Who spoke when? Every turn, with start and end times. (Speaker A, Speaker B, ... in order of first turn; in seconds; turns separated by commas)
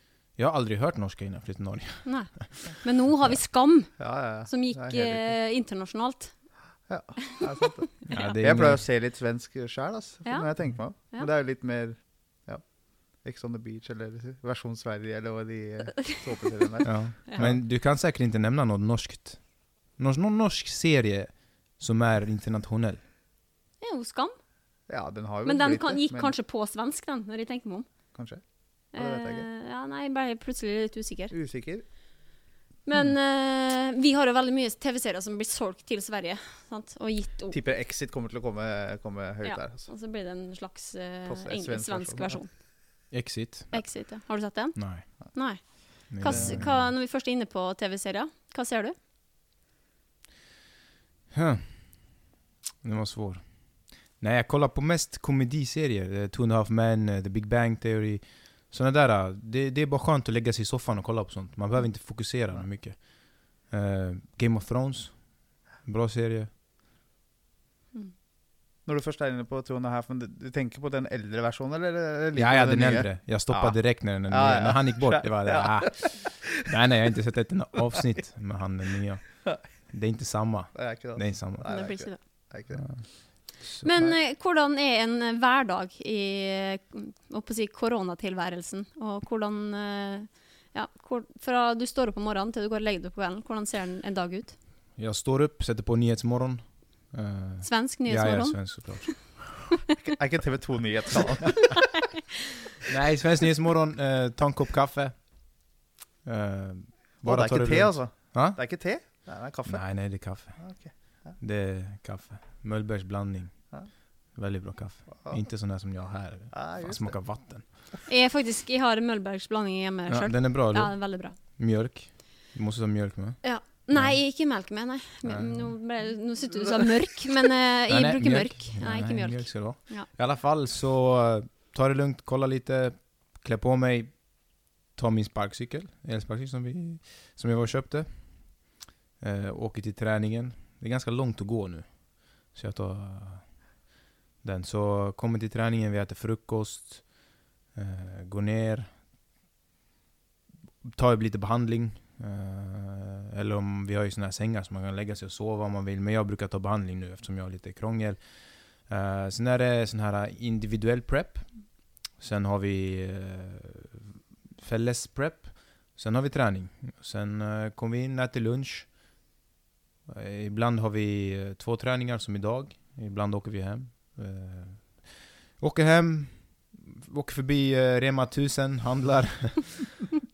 Speaker A: 0.3-2.7, Speaker B: 2.0-6.7, Speaker C: 4.0-5.4, Speaker C: 6.9-17.6, Speaker A: 8.1-8.8, Speaker B: 10.2-11.3, Speaker A: 16.9-23.0, Speaker B: 23.8-24.4, Speaker C: 24.9-26.3, Speaker B: 25.4-27.9, Speaker C: 28.1-29.5, Speaker B: 28.9-31.4, Speaker C: 31.3-31.9, Speaker B: 32.9-37.6, Speaker C: 37.5-39.9, Speaker B: 39.4-43.0, Speaker C: 41.3-42.4, Speaker A: 43.1-44.1, Speaker B: 43.7-49.0, Speaker A: 44.8-45.3, Speaker A: 46.1-46.9, Speaker C: 46.3-46.6, Speaker A: 51.3-52.2, Speaker A: 52.8-66.5, Speaker C: 68.8-76.4, Speaker A: 72.4-81.9, Speaker C: 80.7-83.1, Speaker B: 81.7-82.2, Speaker A: 82.7-83.9, Speaker B: 83.8-94.6, Speaker A: 95.0-99.3, Speaker B: 97.6-99.4, Speaker C: 100.1-101.7, Speaker A: 102.8-105.2, Speaker A: 106.2-108.6, Speaker C: 107.2-111.3, Speaker A: 109.7-113.7, Speaker A: 114.3-117.7, Speaker C: 116.5-117.2, Speaker B: 118.1-121.3, Speaker A: 120.1-124.2, Speaker B: 123.4-130.1, Speaker A: 125.2-125.8, Speaker A: 127.9-138.7, Speaker A: 139.2-143.7, Speaker A: 144.4-148.9, Speaker A: 150.8-169.0, Speaker A: 170.1-180.1